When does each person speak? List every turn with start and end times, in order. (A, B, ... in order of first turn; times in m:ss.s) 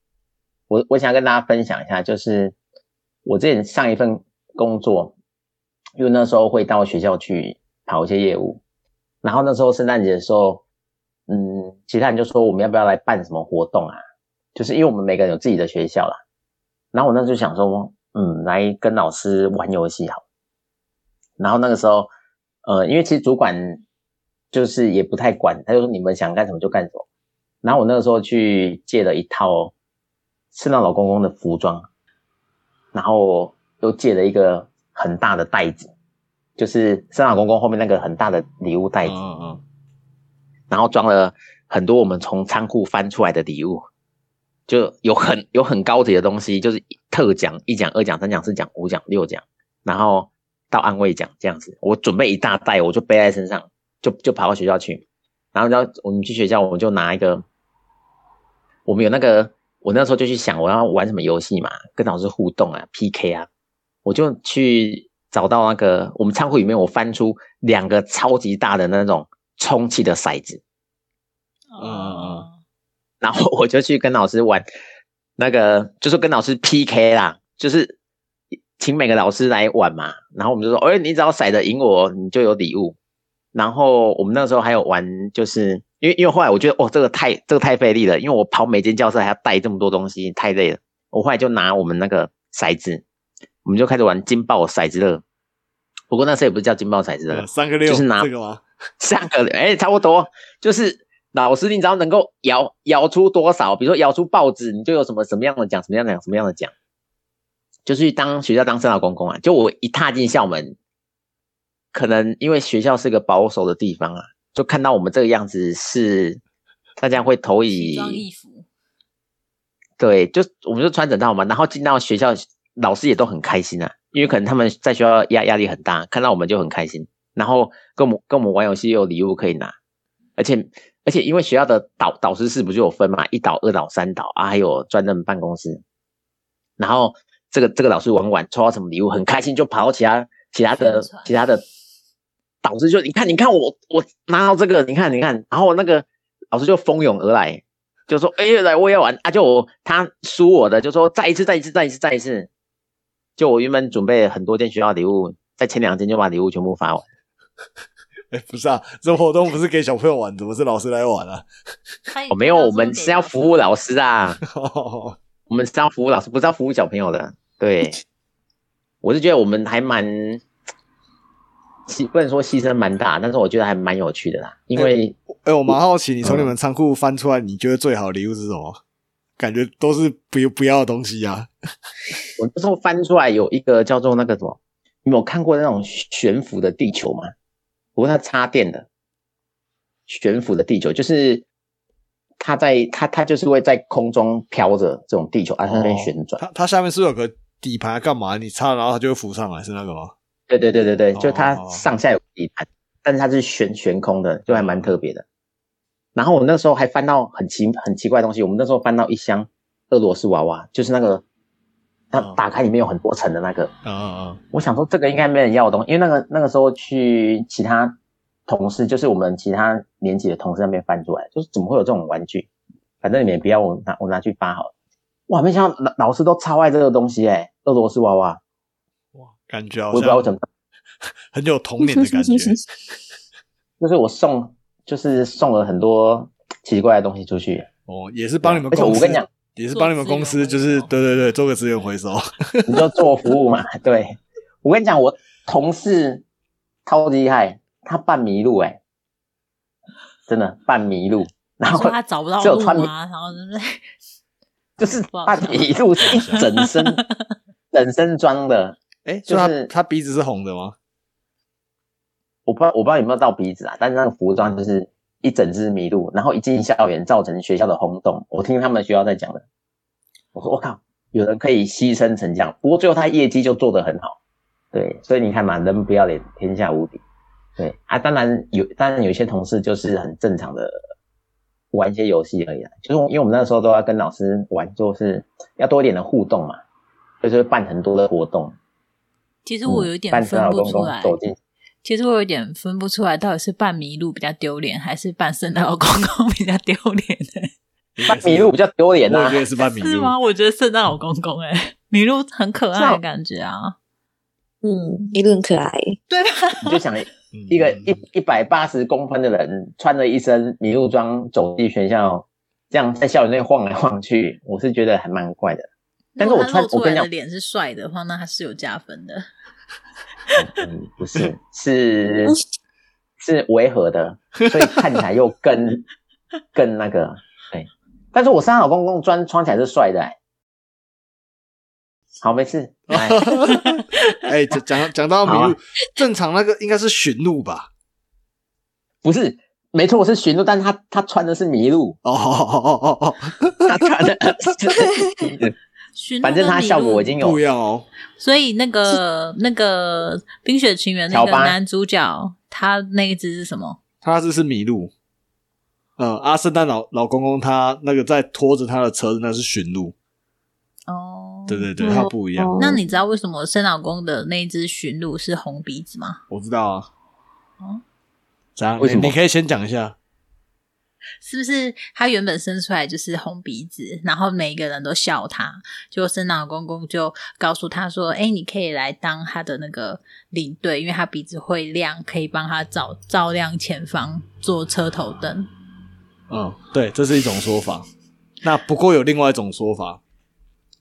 0:00.7-0:02.6 A
0:03.2-0:05.1 A
0:06.0-0:08.6 A
0:09.2-0:10.6 A
0:11.3-0:14.0 A
0:14.6-0:16.2 A
0:16.9-0:20.2 A
0:21.4-0:22.1 A
0:22.6-0:23.8 A
0:24.5-0:27.0 A
0:27.6-0:29.7 A
0:30.5-0:31.9 A
0:32.9-0:35.9 A
0:36.6-0:39.2 A
0:39.0-0:39.6 B
0:40.7-0:43.9 A
0:44.7-0:57.4 A
0:58.9-1:03.5 A
1:04.0-1:10.6 A
1:11.7-1:12.6 C
1:11.8-1:12.5 B
1:13.2-1:14.7 A
1:15.4-1:18.0 A
1:18.8-1:23.0 A
1:23.5-1:33.0 A
1:33.6-1:35.2 A
1:36.1-1:38.3 A
1:37.3-1:38.6 B
1:39.0-1:46.7 A
1:47.9-1:50.8 A
1:51.9-1:56.4 A
1:57.0-1:58.2 A
1:57.7-1:58.7 C
2:00.0-2:09.7 A
2:10.4-2:15.8 A
2:16.8-2:21.6 A
2:20.8-2:21.3 C
2:22.6-2:32.5 A
2:33.4-2:37.0 A
2:38.3-2:41.5 B
2:42.1-2:43.7 C
2:42.3-2:44.4 A
2:44.4-2:45.2 B
2:45.5-2:48.0 A
2:49.0-2:50.4 A
2:51.9-2:55.2 A
2:54.8-2:58.8 B
2:55.7-2:56.5 A
2:59.4-3:01.5 B
3:02.4-3:07.3 A
3:08.0-3:08.9 A
3:10.1-3:11.4 A
3:12.4-3:16.4 A
3:15.6-3:20.1 B
3:20.5-3:25.2 A
3:21.2-3:21.9 B
3:24.5-3:25.0 B
3:26.2-3:31.2 A
3:32.1-3:33.7 A
3:33.8-3:34.4 B
3:34.5-3:38.0 A
3:38.5-3:42.5 A
3:43.0-3:44.7 A
3:45.3-3:48.4 A
3:49.1-3:50.3 B
3:49.9-3:50.4 A
3:51.3-3:52.6 B
3:52.0-3:52.5 D
3:53.8-3:57.7 A
3:57.9-4:02.9 B
3:58.4-3:59.3 A
3:59.7-4:00.9 C
4:02.7-4:06.2 A
4:06.9-4:08.8 A
4:10.3-4:12.9 A
4:11.7-4:13.8 C
4:14.8-4:17.0 A
4:15.1-4:17.1 C
4:16.0-4:16.5 B
4:17.7-4:19.7 A
4:19.0-4:20.8 B
4:22.5-4:29.4 A
4:30.4-4:34.2 A
4:34.7-4:37.0 A
4:37.6-4:40.8 A
4:41.7-4:46.6 A
4:47.2-4:48.6 A
4:49.4-4:51.2 C
4:49.7-4:51.4 A
4:51.8-4:57.5 C
4:58.0-4:58.5 B
4:58.1-4:59.4 A
4:59.1-5:00.2 B
4:59.8-5:03.8 C
5:02.8-5:03.0 A
5:04.6-5:06.0 D
5:06.1-5:06.8 C
5:06.6-5:15.7 A
5:07.3-5:08.0 B
5:16.2-5:19.3 C
5:16.2-5:17.1 A
5:20.4-5:22.4 A
5:23.2-5:25.8 A
5:26.6-5:30.2 A
5:32.2-5:33.3 A
5:32.9-5:37.7 B
5:33.4-5:34.0 C
5:35.2-5:35.6 A
5:39.0-5:42.0 A
5:42.0-5:43.9 B
5:43.6-5:45.5 A
5:46.0-5:47.1 C
5:46.2-5:47.4 A
5:47.2-5:47.9 B
5:48.2-5:53.8 C
5:51.1-5:51.6 A
5:54.0-5:54.9 B
5:56.0-6:00.0 B
6:00.9-6:02.0 C
6:01.5-6:02.6 B
6:01.8-6:02.8 D
6:02.6-6:06.2 C
6:06.3-6:06.9 B
6:08.6-6:10.0 B
6:08.8-6:09.2 A
6:11.2-6:25.5 C
6:26.3-6:27.9 B
6:28.4-6:30.0 B